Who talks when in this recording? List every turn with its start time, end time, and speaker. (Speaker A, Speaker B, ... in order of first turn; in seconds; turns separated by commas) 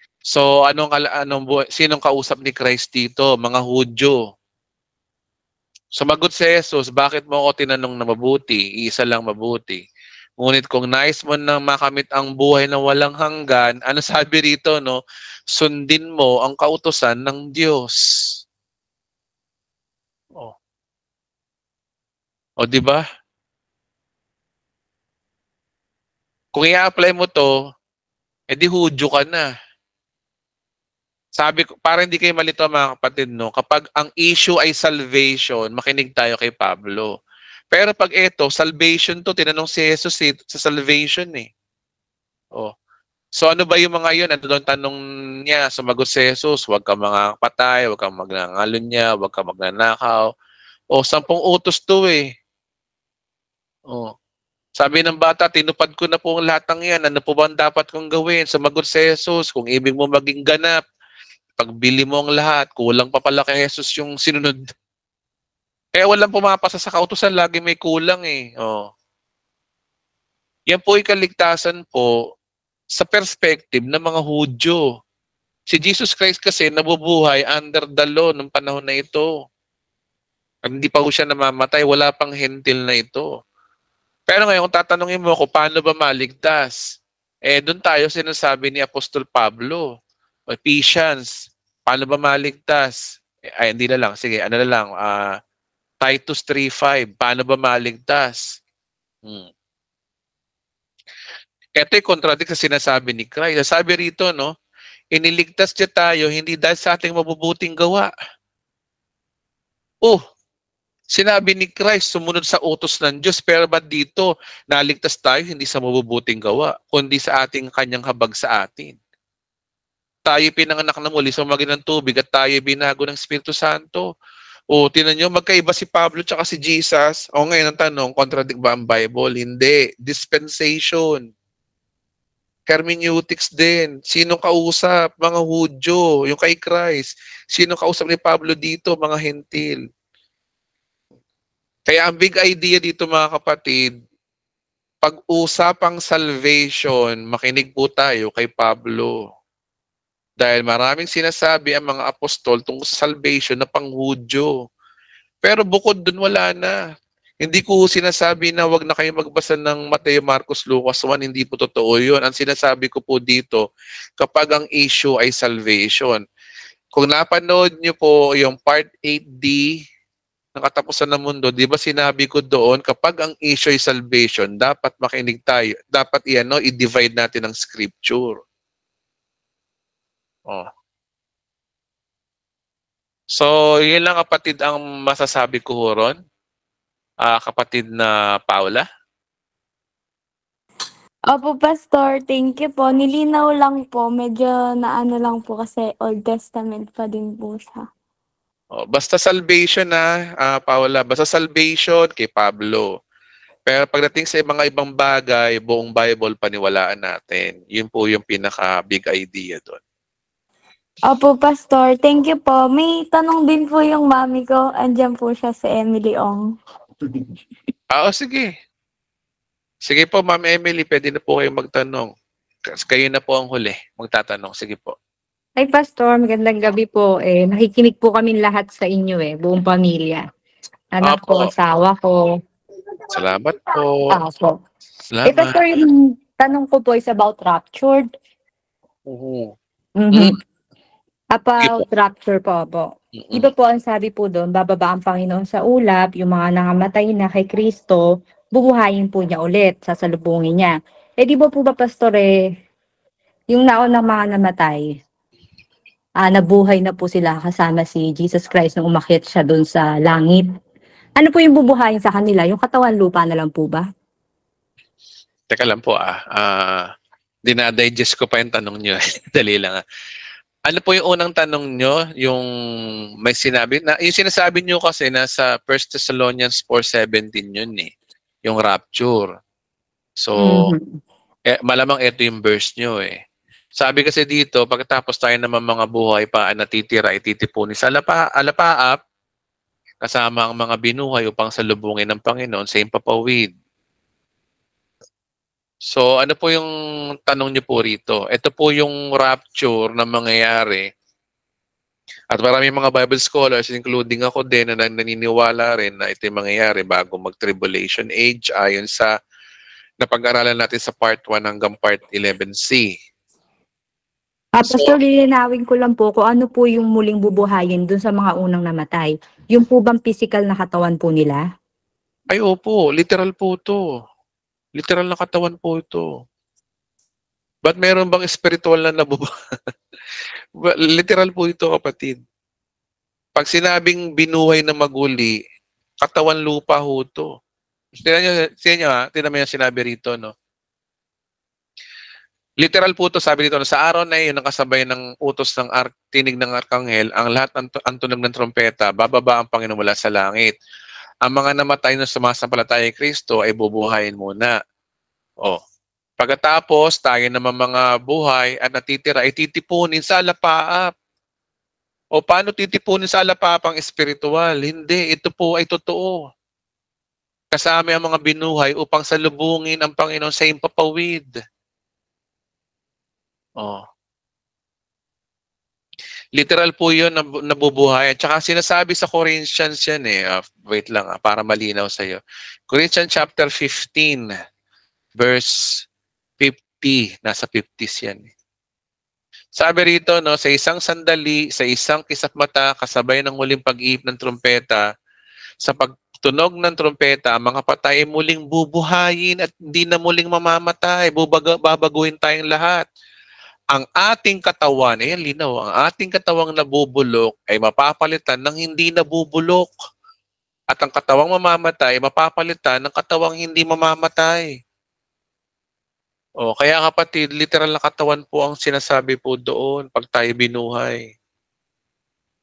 Speaker A: 0.3-4.2, Speaker A: 6.0-9.8, Speaker A: 10.4-15.0, Speaker A: 15.5-18.0, Speaker A: 22.6-23.0, Speaker A: 26.6-27.5, Speaker A: 28.5-29.5, Speaker A: 31.4-37.1, Speaker A: 37.7-41.5, Speaker A: 43.4-50.2, Speaker A: 51.0-52.2, Speaker A: 54.8-60.8, Speaker A: 61.6-64.6, Speaker A: 66.0-68.9, Speaker A: 70.7-72.1, Speaker A: 73.0-74.8, Speaker A: 75.7-79.3, Speaker A: 80.7-83.3, Speaker A: 84.3-86.8, Speaker A: 87.5-89.8, Speaker A: 90.5-91.3, Speaker A: 91.9-93.0, Speaker A: 93.6-95.3, Speaker A: 96.0-98.4, Speaker A: 101.8-104.5, Speaker A: 105.2-108.1, Speaker A: 111.2-119.0, Speaker A: 120.3-124.1, Speaker A: 124.7-131.2, Speaker A: 132.7-139.8, Speaker A: 141.9-143.9, Speaker A: 145.0-149.1, Speaker A: 150.4-154.5, Speaker A: 155.4-156.8, Speaker A: 157.4-163.6, Speaker A: 164.2-166.2, Speaker A: 166.9-169.7, Speaker A: 170.6-178.4, Speaker A: 183.3-186.2, Speaker A: 187.2-188.8, Speaker B: 191.3-197.8, Speaker A: 198.7-202.9, Speaker A: 203.7-209.8, Speaker B: 211.1-216.5, Speaker A: 217.9-218.5, Speaker A: 219.9-222.1, Speaker A: 222.7-224.9, Speaker C: 225.6-230.2, Speaker C: 230.9-232.2, Speaker A: 231.0-231.5, Speaker A: 233.1-234.2, Speaker C: 234.1-234.6, Speaker A: 235.1-235.6, Speaker C: 235.3-238.1, Speaker A: 239.1-239.5, Speaker C: 240.0-240.4, Speaker A: 240.1-240.4, Speaker C: 241.4-252.3, Speaker A: 243.2-243.5, Speaker C: 253.5-254.8, Speaker C: 256.2-260.5, Speaker C: 261.2-263.9, Speaker A: 265.5-266.9, Speaker A: 267.5-269.8, Speaker A: 270.7-272.5, Speaker A: 273.2-277.9, Speaker A: 278.4-279.3, Speaker A: 280.2-280.8, Speaker C: 280.4-281.0, Speaker A: 281.5-283.2, Speaker A: 283.8-289.0, Speaker A: 290.0-293.5, Speaker A: 295.9-296.7, Speaker A: 297.3-300.9, Speaker A: 302.3-309.1, Speaker A: 310.0-312.9, Speaker C: 314.6-321.4, Speaker A: 314.6-315.0, Speaker A: 322.3-323.8, Speaker A: 324.8-326.1, Speaker A: 327.6-329.3, Speaker A: 330.6-332.2, Speaker A: 333.4-335.4, Speaker A: 336.0-337.3, Speaker A: 338.0-340.3, Speaker A: 342.6-350.5, Speaker A: 351.2-354.6, Speaker A: 356.2-360.9, Speaker A: 362.2-366.2, Speaker A: 367.5-371.3, Speaker A: 376.4-382.2, Speaker A: 382.7-384.3, Speaker A: 385.2-385.8, Speaker A: 386.4-388.3, Speaker A: 389.6-394.8, Speaker A: 395.6-402.9, Speaker A: 403.7-409.7, Speaker A: 410.7-414.5, Speaker A: 416.4-421.0